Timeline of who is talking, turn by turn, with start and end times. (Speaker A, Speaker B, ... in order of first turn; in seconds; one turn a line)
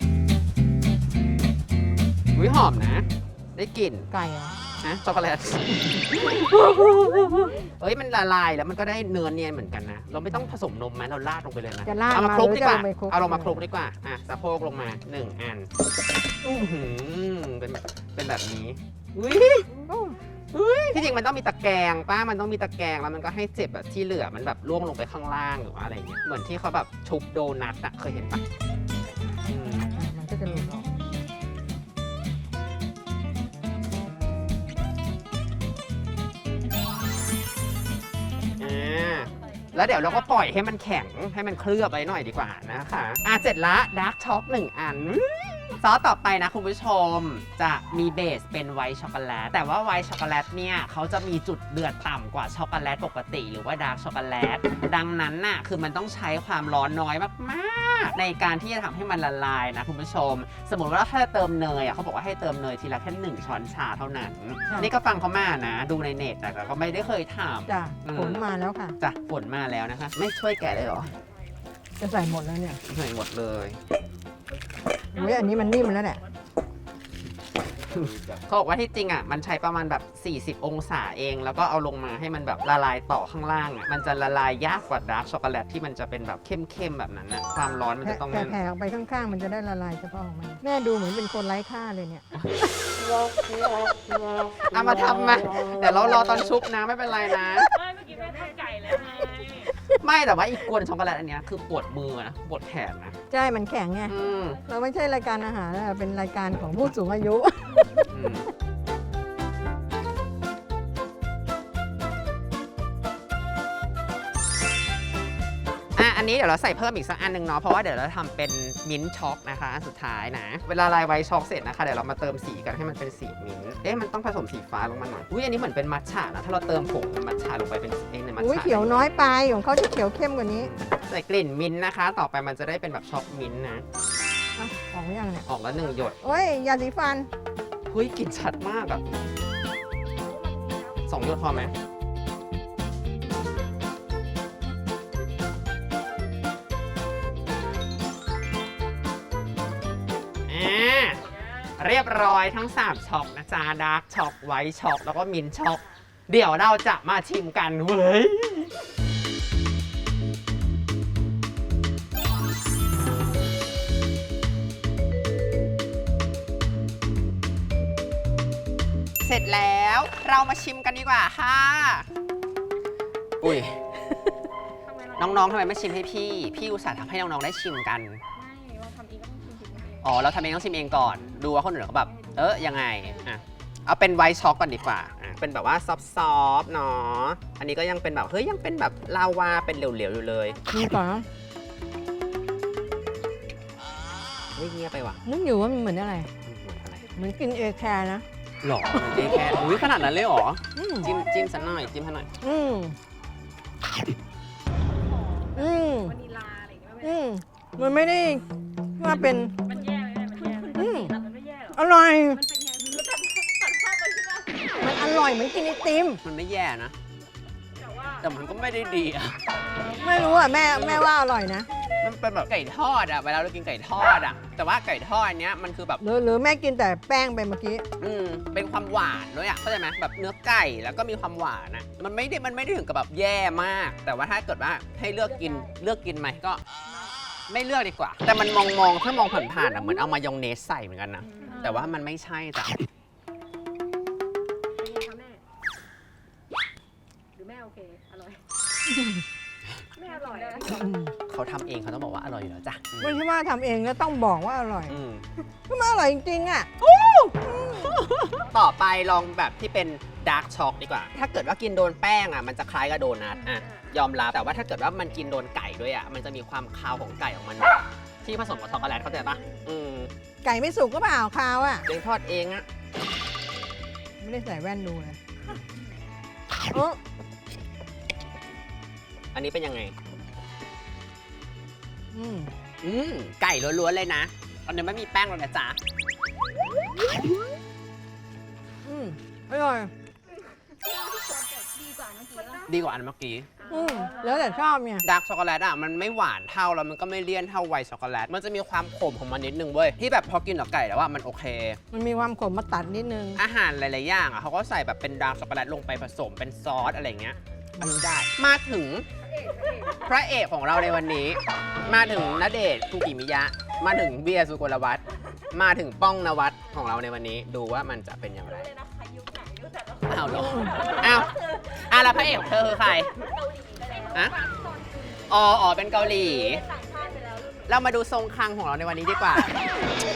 Speaker A: 2.3-4.1
Speaker B: 4.1-4.6
Speaker A: 4.8-15.7
Speaker B: 11.8-13.6
Speaker A: 16.4-19.7
Speaker B: 19.8-20.2
Speaker A: 20.5-28.4
Speaker A: 29.5-29.9
Speaker B: 29.8-30.9
Speaker A: 38.6-68.4
Speaker B: 67.7-69.0
Speaker A: 69.0-71.1
Speaker B: 72.0-72.8
Speaker A: 72.8-73.8
Speaker B: 75.1-76.2
Speaker A: 77.8-88.6
Speaker B: 88.0-92.3
Speaker A: 94.7-97.8
Speaker C: 98.1-98.7
Speaker A: 99.1-103.1
Speaker B: 103.3-108.1
Speaker A: 104.1-104.6
Speaker A: 108.1-108.5
Speaker A: 116.0-129.1
Speaker B: 128.4-130.7
Speaker A: 130.6-133.8
Speaker B: 134.6-135.4
Speaker A: 135.5-136.2
Speaker B: 136.2-137.3
Speaker A: 137.9-139.0
Speaker A: 141.1-141.7
Speaker A: 150.5-151.2
Speaker A: 151.8-158.7
Speaker A: 169.2-172.1
Speaker A: 173.4-173.9
Speaker C: 174.9-175.2
Speaker A: 175.2-178.2
Speaker C: 178.4-180.0
Speaker A: 180.0-190.6
Speaker B: 190.7-191.2
Speaker A: 194.5-195.2
Speaker B: 195.2-196.3
Speaker A: 196.4-197.1
Speaker B: 197.2-198.2
Speaker A: 198.6-202.3
Speaker B: 200.8-201.1
Speaker B: 202.4-203.0
Speaker C: 205.1-207.0
Speaker B: 205.5-206.2
Speaker B: 207.0-208.4
Speaker B: 209.0-209.6
Speaker C: 209.7-211.7
Speaker B: 210.7-211.2
Speaker B: 211.7-212.4
Speaker C: 212.4-214.6
Speaker B: 214.8-216.2
Speaker A: 216.2-216.9
Speaker A: 218.1-219.5
Speaker B: 219.9-221.7
Speaker A: 220.3-221.1
Speaker A: 222.0-226.0
Speaker B: 226.0-227.9
Speaker A: 228.0-236.6
Speaker A: 237.5-242.8
Speaker C: 244.8-245.4
Speaker C: 247.3-248.4
Speaker B: 248.9-249.2
Speaker C: 250.0-250.7
Speaker B: 250.6-251.1
Speaker A: 251.3-253.2
Speaker B: 253.0-255.0
Speaker A: 254.9-255.2
Speaker B: 255.7-256.7
Speaker A: 256.8-270.1
Speaker B: 257.6-257.9
Speaker B: 270.4-271.8
Speaker A: 271.8-272.6
Speaker B: 274.2-275.2
Speaker B: 276.7-277.0
Speaker A: 279.3-279.9
Speaker B: 282.1-282.5
Speaker A: 282.8-285.8
Speaker B: 288.8-289.9
Speaker C: 291.0-292.6
Speaker A: 292.6-293.5
Speaker B: 293.7-295.1
Speaker A: 295.0-301.8
Speaker B: 301.9-303.4
Speaker A: 303.4-309.1
Speaker A: 309.8-318.8
Speaker C: 318.9-320.1
Speaker A: 320.1-323.1
Speaker B: 320.5-320.7
Speaker C: 323.3-325.2
Speaker A: 324.1-324.4
Speaker A: 325.3-326.6
Speaker C: 326.6-327.6
Speaker A: 327.6-329.7